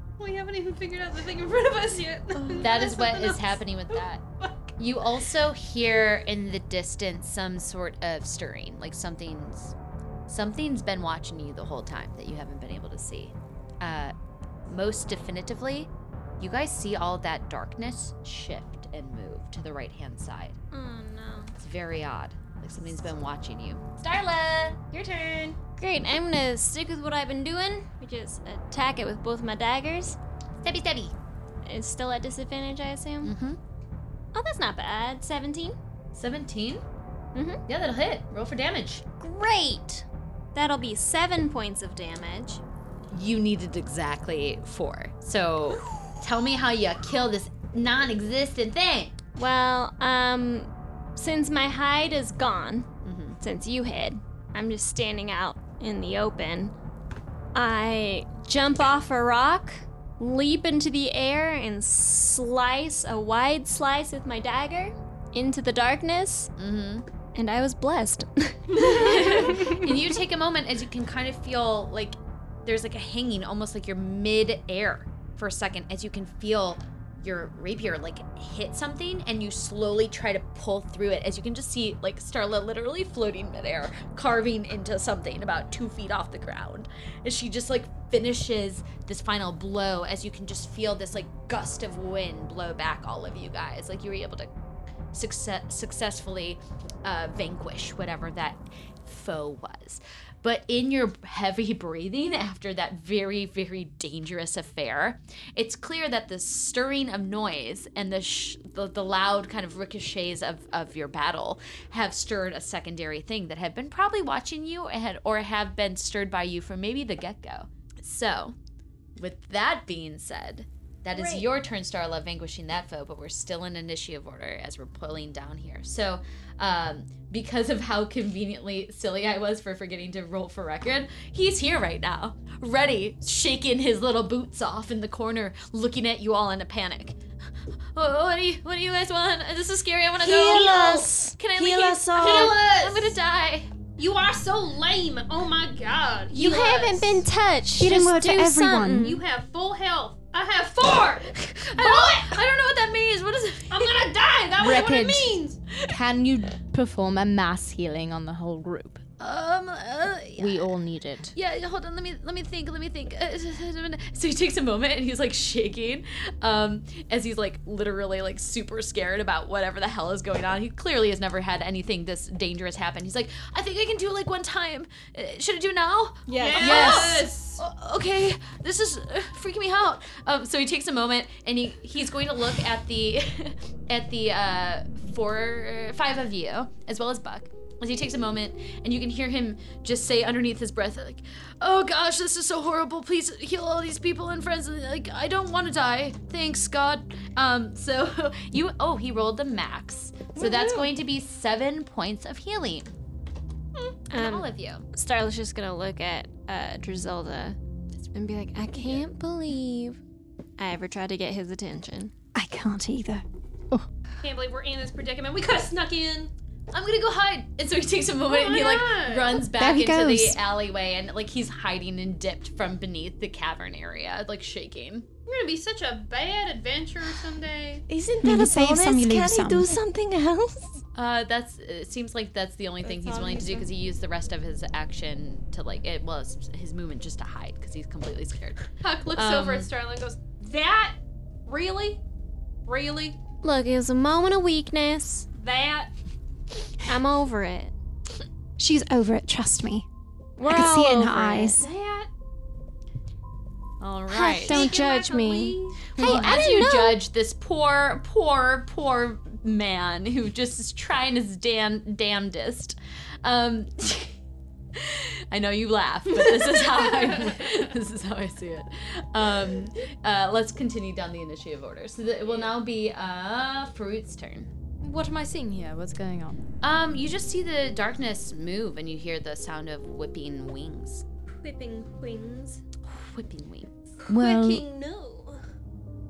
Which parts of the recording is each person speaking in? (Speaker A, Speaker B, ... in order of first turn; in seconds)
Speaker A: 0.2-4.5, 68.8-69.2, 142.2-143.2, 144.0-147.2, 148.9-152.4, 153.7-155.6, 176.4-177.6, 214.2-216.3, 218.3-219.5, 225.3-227.8, 238.8-242.0, 242.7-243.2, 245.3-245.9, 251.6-252.1, 254.5-256.0
Speaker B: 2.6-4.2, 4.8-9.8, 10.3-14.1, 14.7-20.6, 21.6-25.5, 30.6-31.1, 33.2-33.6, 36.1-36.8, 37.7-39.0, 43.1-49.2, 53.0-53.4, 66.6-67.1, 68.8-94.5, 95.1-118.5, 119.2-137.2, 137.9-143.7, 151.4-153.9, 159.2-160.8, 161.3-202.9, 204.1-204.9, 216.7-225.1, 230.9-239.7, 253.8-254.7, 256.0-264.1, 264.8-274.5, 276.6-281.0, 282.9-283.7
Speaker C: 20.7-21.5, 25.6-30.2, 31.6-33.3, 34.3-35.8, 37.4-37.6, 39.2-42.6, 49.4-52.9, 53.4-56.7, 57.5-66.5, 67.3-69.9, 121.1-121.5, 146.3-149.2, 204.1-210.0, 210.6-212.1, 243.4-245.3, 246.9-247.7, 250.4-251.6, 254.4-257.0, 281.3-282.6, 284.0-285.4
Speaker D: 140.2-142.6, 176.3-177.2, 200.3-200.9, 227.9-230.8, 232.8-233.7
Speaker E: 147.8-149.2, 212.3-213.9, 219.5-220.4, 228.2-229.7, 248.6-249.9, 250.4-251.7, 254.2-254.5, 256.0-256.4
Speaker F: 154.6-155.3, 155.9-159.0, 160.4-161.4, 274.8-276.4, 284.1-284.7